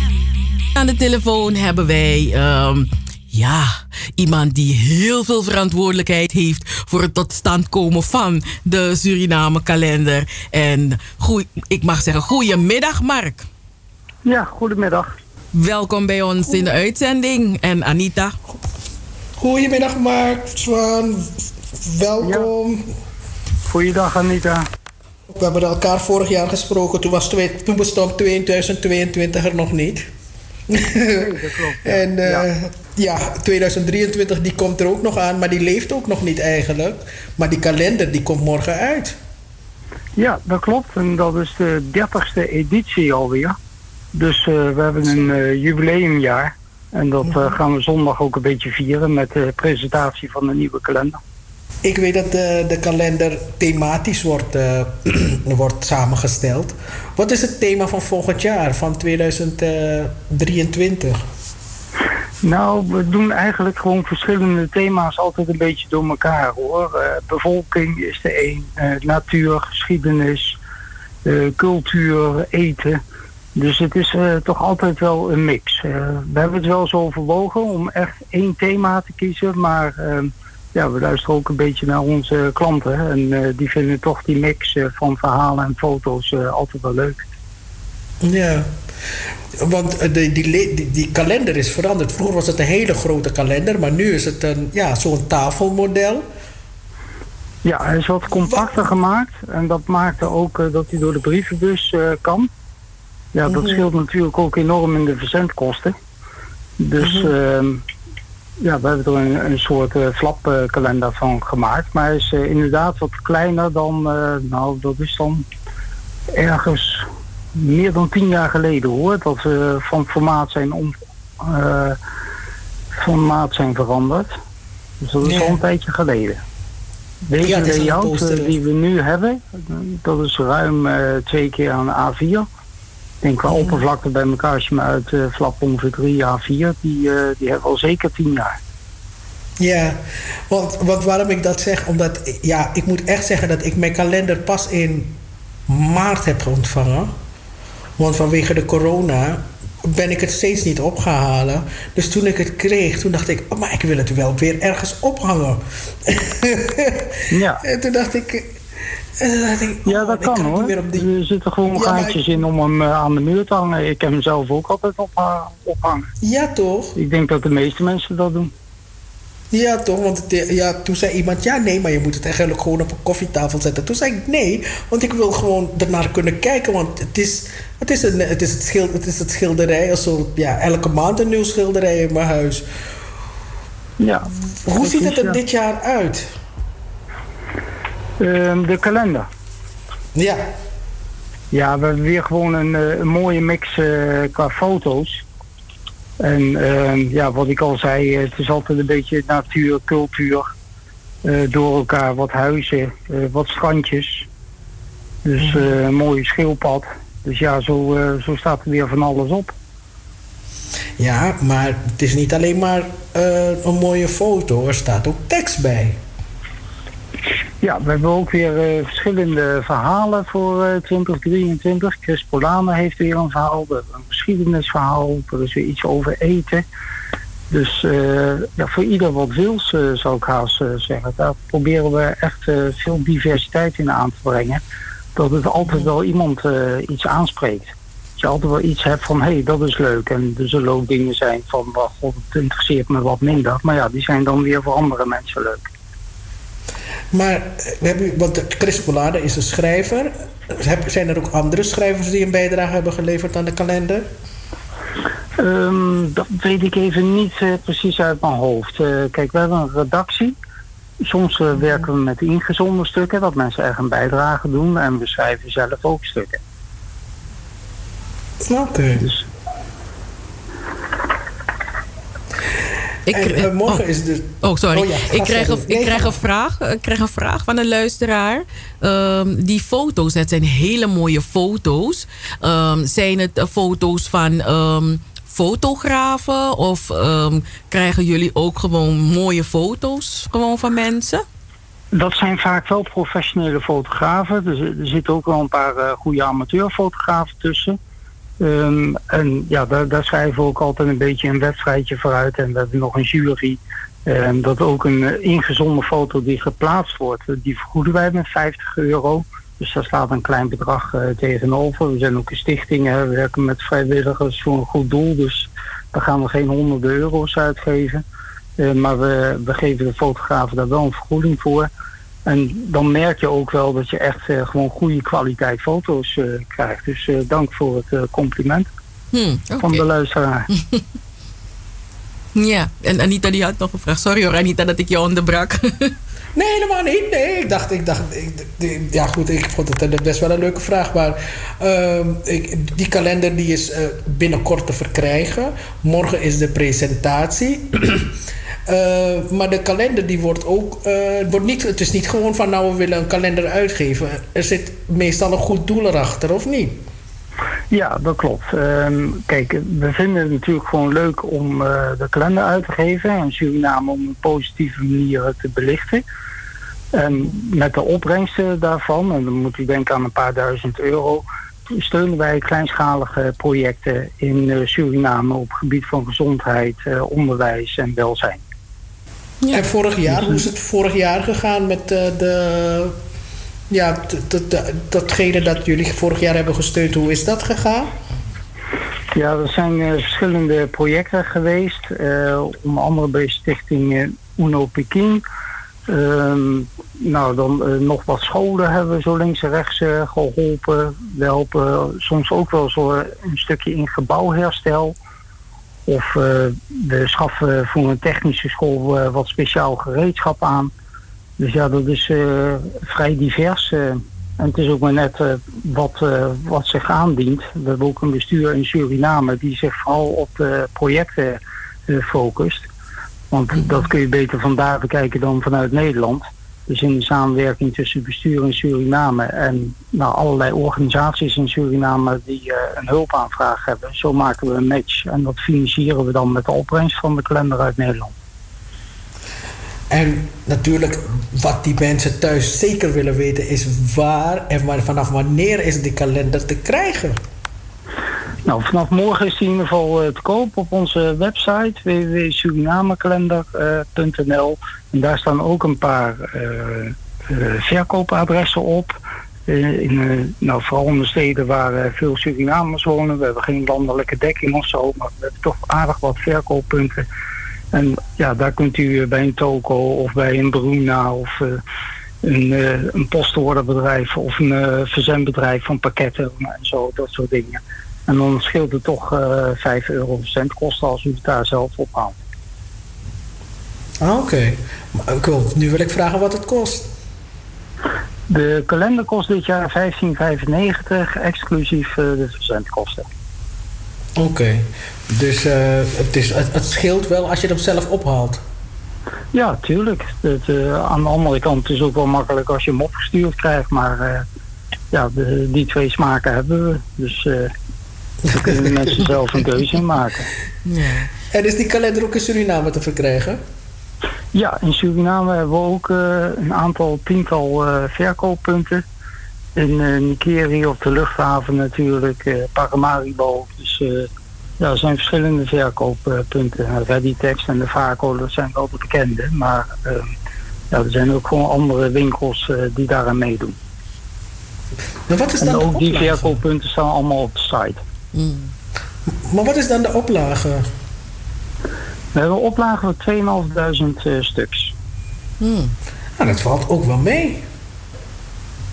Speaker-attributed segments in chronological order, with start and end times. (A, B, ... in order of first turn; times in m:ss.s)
0:00.8-0:13.4 A
0:14.2-0:15.1 B
0:15.5-0:18.4 A
0:19.4-0:22.8 C
0:22.2-0:22.5 B
0:23.6-0:24.6 B
0:25.3-0:30.1 C
0:30.7-0:31.3 C
0:31.2-0:32.5 B
0:31.8-0:39.2 C
0:40.2-0:43.5 B
0:44.1-0:51.2 B
0:51.8-1:01.2 C
1:02.4-1:10.6 B
1:11.2-1:13.0 B
1:13.5-1:27.2 B
1:28.2-1:28.7 C
1:29.6-1:36.2 C
1:37.6-1:42.5 B
1:43.3-1:45.9 B
1:43.4-1:43.8 C
1:46.8-1:47.8 B
1:47.0-1:47.3 C
1:48.6-1:55.4 B
1:56.3-2:02.0 B
2:03.0-2:04.3 B
2:05.0-2:06.4 B
2:05.2-2:05.6 C
2:07.2-2:12.4 B
2:07.4-2:08.6 C
2:13.2-2:18.5 B
2:13.5-2:13.8 C
2:19.6-2:25.1 C
2:25.7-2:27.1 C
2:28.0-2:38.6 C
2:37.3-2:37.6 B
2:39.2-2:41.1 C
2:39.8-2:46.1 B
2:41.7-2:42.2 C
2:46.2-2:46.9 C
2:47.0-2:48.5 B
2:49.5-3:02.6 C
3:04.0-3:05.4 B
3:04.6-3:06.3 C
3:08.2-3:09.2 B
3:10.1-3:10.4 C
3:11.5-3:15.2 B
3:16.2-3:20.5 B
3:21.2-3:24.3 B
3:25.2-3:29.5 B
3:31.0-3:36.0 C
3:37.6-3:46.6 B
3:47.5-3:54.6 B
3:55.1-3:57.6 B
3:58.2-4:05.6 B
4:07.1-4:14.1 C
4:15.4-4:20.4 B
4:21.0-4:26.4 B
4:28.4-4:29.1 C
4:33.1-4:33.8 A
4:33.1-4:36.2 C
4:34.4-4:51.2 A
4:51.9-4:57.8 B
4:58.4-5:18.0 B
5:18.6-5:21.7 B
5:22.2-5:28.7 B
5:29.1-5:29.8 A
5:29.6-5:30.5 B
5:32.3-5:35.9 A
5:36.3-5:48.1 C
5:48.7-5:56.8 C
5:57.7-6:06.0 B
6:06.9-6:18.4 B
6:19.5-6:22.9 C
6:20.1-6:20.4 B
6:23.7-6:27.9 C
6:29.1-6:35.2 B
6:35.9-6:45.0 B
6:45.9-6:50.7 B
6:51.4-7:02.7 B
7:03.3-7:18.1 B
7:19.9-7:27.2 C
7:28.4-7:47.0 B
7:47.7-7:51.6 B
7:52.2-8:02.2 B
8:04.0-8:06.9 C
8:08.3-8:13.0 B
8:14.2-8:18.4 C
8:19.3-8:24.2 B
8:24.9-8:27.5 B
8:28.3-8:30.3 B
8:30.6-8:31.1 A
8:31.3-8:33.4 C
8:34.3-8:38.8 B
8:39.6-8:44.1 B
8:44.6-8:50.1 B
8:50.7-8:53.5 B
8:55.1-8:56.4 C
8:55.4-8:57.8 B
8:58.1-8:58.5 A
8:59.3-9:00.6 C
9:02.1-9:04.7 B
9:05.4-9:05.7 A
9:06.2-9:07.4 C